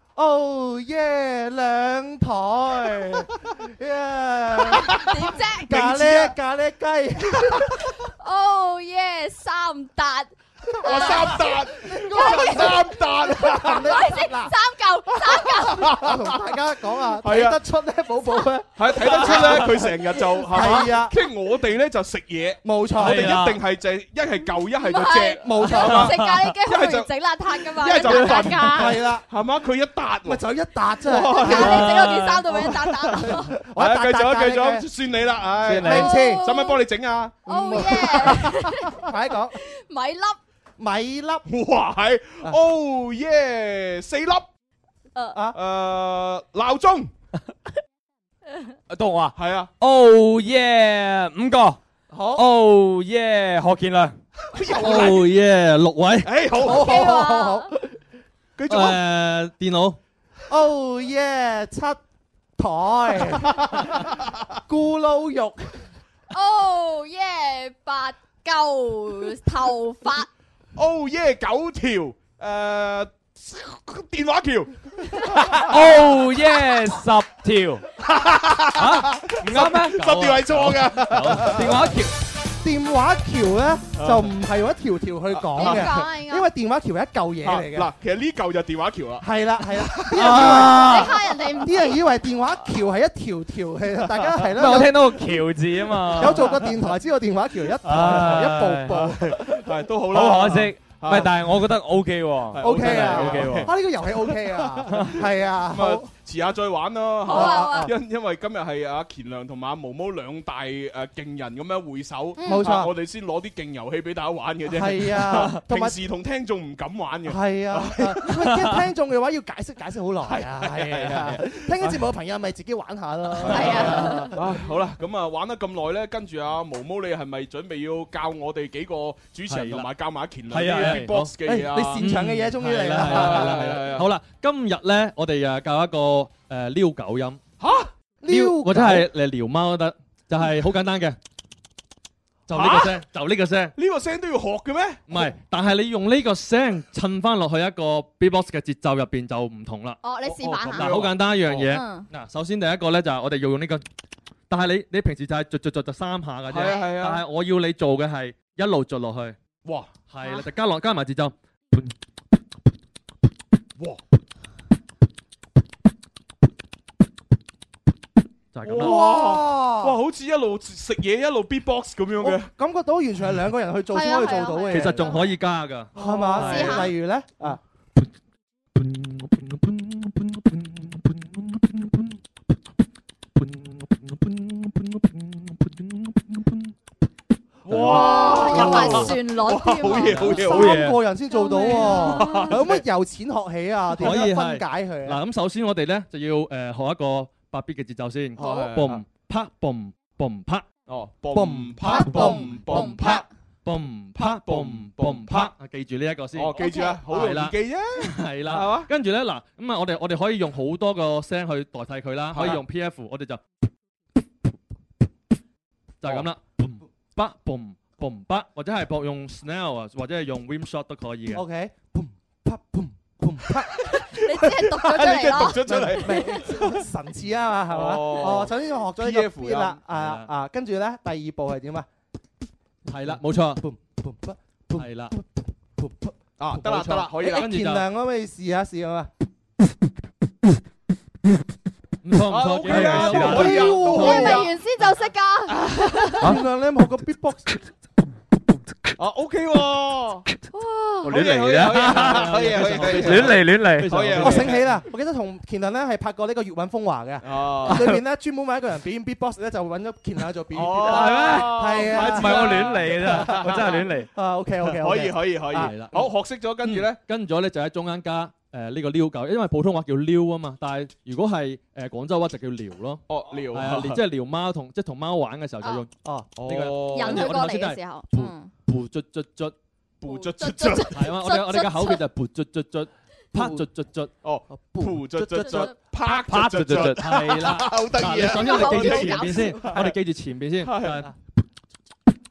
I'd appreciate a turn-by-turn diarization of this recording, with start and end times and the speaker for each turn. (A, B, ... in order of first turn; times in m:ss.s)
0:00.2-0:05.0 A
0:04.7-0:05.7 B
0:05.7-0:07.7 A
0:05.7-0:06.3 C
0:07.8-0:16.1 B
0:10.8-0:14.0 C
0:10.9-0:14.5 A
0:15.8-0:16.4 C
0:15.8-0:21.2 A
0:17.2-0:17.6 C
0:18.8-0:27.1 C
0:22.6-0:23.4 A
0:22.9-0:23.6 D
0:24.8-0:29.0 B
0:25.4-0:26.1 A
0:26.1-0:26.5 D
0:27.7-0:30.4 C
0:28.1-0:28.5 D
0:28.6-0:29.2 A
0:30.2-0:31.9 A
0:31.0-0:31.9 C
0:31.3-0:33.5 B
0:31.6-0:32.5 D
0:32.6-0:38.5 C
0:33.1-0:34.9 A
0:35.6-0:36.1 D
0:35.7-0:36.4 A
0:35.8-0:36.8 B
0:37.4-0:40.4 B
0:37.5-0:39.5 A
0:40.8-0:41.4 A
0:41.5-0:44.4 C
0:45.1-0:45.4 B
0:45.5-0:47.1 C
0:48.9-0:51.8 D
0:49.4-0:49.7 C
0:52.1-0:52.4 A
0:52.3-0:54.2 D
0:54.5-0:55.3 C
0:54.8-0:56.3 E
0:56.2-0:57.0 C
0:56.6-0:57.7 A
0:56.6-0:57.7 B
0:58.6-0:59.0 C
0:58.7-1:00.0 E
1:00.5-1:02.0 A
1:02.6-1:03.8 A
1:03.4-1:04.4 C
1:04.7-1:05.7 A
1:06.3-1:10.3 B
1:10.8-1:15.7 C
1:15.6-1:17.8 D
1:18.0-1:21.8 C
1:18.7-1:20.2 D
1:20.0-1:21.5 E
1:21.4-1:22.1 D
1:22.6-1:27.9 A
1:24.0-1:24.3 C
1:25.4-1:26.0 C
1:25.5-1:26.5 B
1:27.4-1:30.7 C
1:29.2-1:31.1 A
1:30.1-1:31.1 D
1:30.7-1:32.0 B
1:31.6-1:35.0 A
1:34.1-1:34.8 C
1:34.5-1:36.7 D
1:36.2-1:39.4 A
1:36.2-1:36.7 C
1:37.8-1:39.0 D
1:38.9-1:41.5 C
1:40.1-1:43.7 D
1:42.5-1:58.3 C
1:42.6-1:46.1 A
1:47.2-1:47.9 B
1:47.3-1:47.9 A
1:52.4-1:52.7 B
1:52.4-1:52.9 A
1:54.7-1:56.0 A
1:57.2-2:04.4 A
1:58.3-1:58.7 D
2:00.2-2:01.6 C
2:03.5-2:12.0 C
2:03.5-2:04.3 B
2:09.5-2:09.9 E
2:10.5-2:11.3 E
2:10.5-2:11.0 D
2:11.4-2:13.8 A
2:12.0-2:17.4 E
2:13.0-2:14.1 C
2:17.6-2:17.9 C
2:18.2-2:19.1 A
2:18.3-2:21.2 E
2:22.5-2:23.7 E
2:22.5-2:22.9 C
2:23.8-2:25.3 C
2:25.1-2:30.0 E
2:30.0-2:30.9 B
2:30.2-2:31.7 C
2:30.6-2:33.8 E
2:31.6-2:32.1 B
2:34.5-2:39.4 E
2:36.5-2:37.2 C
2:36.6-2:36.9 B
2:39.6-2:39.9 C
2:40.1-2:41.9 E
2:40.2-2:40.5 B
2:48.5-2:48.9 E
2:48.6-2:52.5 C
2:48.8-2:49.9 A
2:52.2-2:55.2 A
2:53.9-2:55.3 B
2:54.7-2:56.9 E
2:55.9-2:56.9 B
2:55.9-2:57.6 A
2:58.8-3:02.2 E
3:03.4-3:06.7 E
3:07.6-3:10.7 C
3:07.6-3:08.9 E
3:07.9-3:10.7 B
3:10.0-3:10.5 E
3:10.4-3:15.2 A
3:10.5-3:11.0 D
3:11.3-3:12.5 B
3:11.8-3:12.8 C
3:13.9-3:20.7 E
3:18.4-3:19.0 C
3:20.8-3:23.2 C
3:21.3-3:23.1 A
3:21.9-3:23.3 B
3:23.6-3:33.4 E
3:24.2-3:25.5 C
3:26.3-3:28.9 C
3:26.5-3:27.0 B
3:32.3-3:32.6 C
3:36.0-3:41.4 E
3:36.0-3:36.3 C
3:41.3-3:43.8 A
3:43.8-3:46.8 C
3:44.1-3:45.6 B
3:45.6-3:51.9 A
3:47.7-3:49.8 C
3:49.9-3:50.3 E
3:52.8-3:53.6 E
3:53.3-3:55.2 A
3:54.8-3:55.2 E
3:55.8-3:59.1 A
3:56.4-3:57.4 C
3:56.8-3:57.8 E
4:02.0-4:04.4 E
4:02.3-4:04.5 C
4:02.7-4:03.7 D
4:03.2-4:04.4 A
4:03.8-4:06.3 B
4:06.2-4:07.5 A
4:09.0-4:10.3 C
4:10.5-4:11.1 B
4:11.0-4:14.0 D
4:11.1-4:14.6 C
4:11.8-4:14.5 E
4:14.2-4:25.7 A
4:17.2-4:17.8 C
4:17.7-4:18.0 D
4:20.5-4:23.8 C
4:20.8-4:24.1 D
4:22.2-4:22.8 E
4:24.6-4:27.0 C
4:25.5-4:39.5 E
4:33.1-4:34.0 C
4:36.4-4:37.4 C
4:36.9-4:38.5 B
4:40.0-4:41.1 C
4:40.0-4:42.0 B
4:40.9-4:44.1 E
4:43.3-4:43.6 A
4:44.2-4:50.0 C
4:44.5-4:45.7 A
4:45.4-4:45.7 B
4:46.1-4:47.4 D
4:46.6-4:51.1 E
4:48.3-4:49.6 B
4:50.6-4:51.1 C